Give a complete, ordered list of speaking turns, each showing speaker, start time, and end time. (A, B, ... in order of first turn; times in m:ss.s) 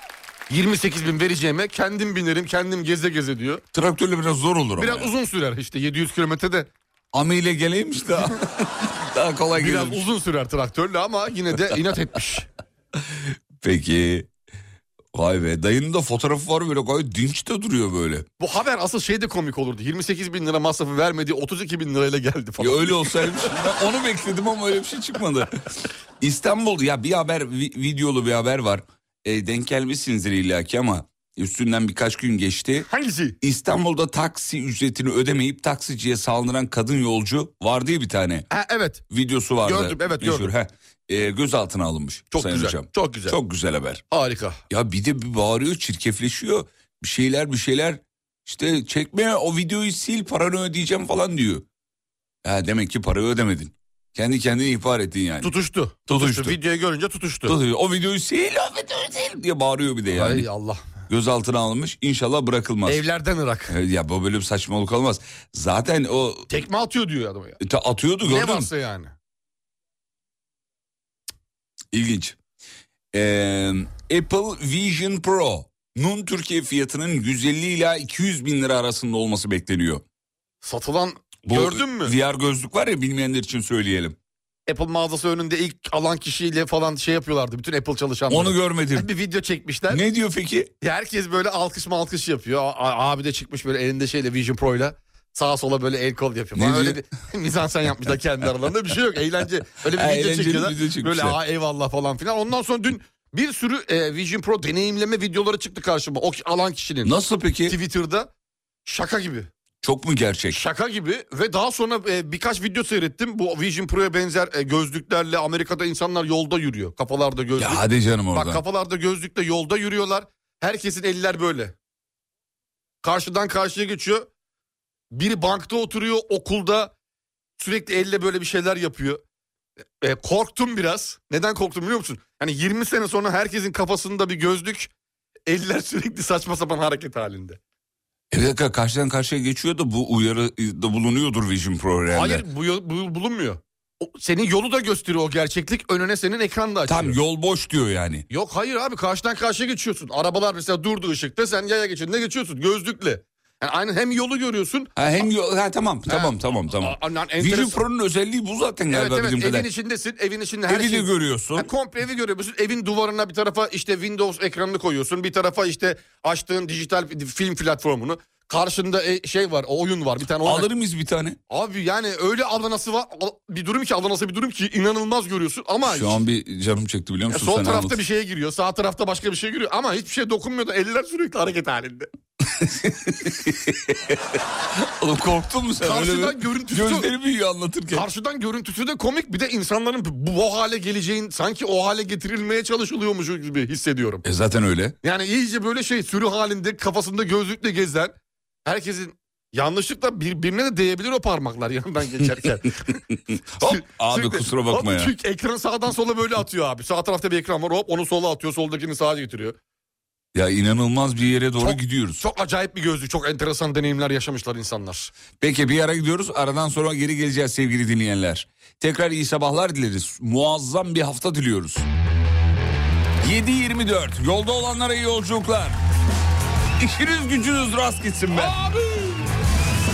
0:00.5-0:03.6 A
0:03.7-0:05.1 B
0:04.8-0:06.7 A
0:07.1-0:10.1 B
0:09.6-0:12.5 A
0:13.1-0:14.3 B
0:15.1-0:18.3 B
0:18.4-0:23.5 A
0:22.6-0:25.6 B
0:26.2-0:32.9 B
0:32.9-0:33.4 A
0:33.4-0:38.5 B
0:38.5-0:39.0 A
0:39.1-0:44.0 B
0:39.6-0:40.5 A
0:42.3-0:43.4 A
0:44.1-0:44.6 A
0:44.7-0:51.7 B
0:52.4-0:55.5 B
0:55.4-0:57.6 A
0:56.1-0:56.6 B
0:57.5-1:00.5 B
1:00.1-1:00.9 A
1:01.1-1:03.0 B
1:02.9-1:03.7 A
1:03.7-1:06.5 B
1:06.5-1:07.6 A
1:07.6-1:08.7 B
1:08.2-1:09.1 A
1:11.9-1:12.4 B
1:13.1-1:20.0 B
1:20.6-1:22.1 A
1:21.5-1:24.2 B
1:24.7-1:30.0 A
1:28.3-1:29.1 B
1:29.9-1:30.7 B
1:30.8-1:47.1 A
1:36.6-1:37.0 B
1:39.9-1:41.4 B
1:47.0-1:47.8 B
1:47.7-1:48.3 A
1:48.9-1:49.5 A
1:49.8-1:50.6 B
1:50.5-2:01.8 A
1:57.6-1:58.6 B
2:03.0-2:04.3 A
2:05.1-2:06.9 A
2:07.6-2:09.2 A
2:10.0-2:14.9 A
2:15.5-2:17.6 A
2:18.3-2:22.4 B
2:22.1-2:27.2 A
2:26.9-2:28.3 B
2:28.3-2:35.1 A
2:35.0-2:39.7 B
2:36.1-2:37.8 A
2:38.9-2:50.7 A
2:40.7-2:41.7 B
2:50.4-2:51.4 B
2:51.5-2:56.2 A
2:55.8-2:58.0 B
2:57.3-3:02.1 A
3:02.5-3:08.1 B
3:05.8-3:07.1 A
3:07.9-3:14.2 A
3:14.2-3:15.0 B
3:15.0-3:18.1 A
3:18.6-3:23.0 A
3:23.6-3:25.1 B
3:23.6-3:29.6 A
3:30.3-3:32.2 B
3:31.6-3:35.1 A
3:35.4-3:41.9 B
3:43.2-3:45.8 B
3:46.8-3:48.6 B
3:48.3-3:49.2 A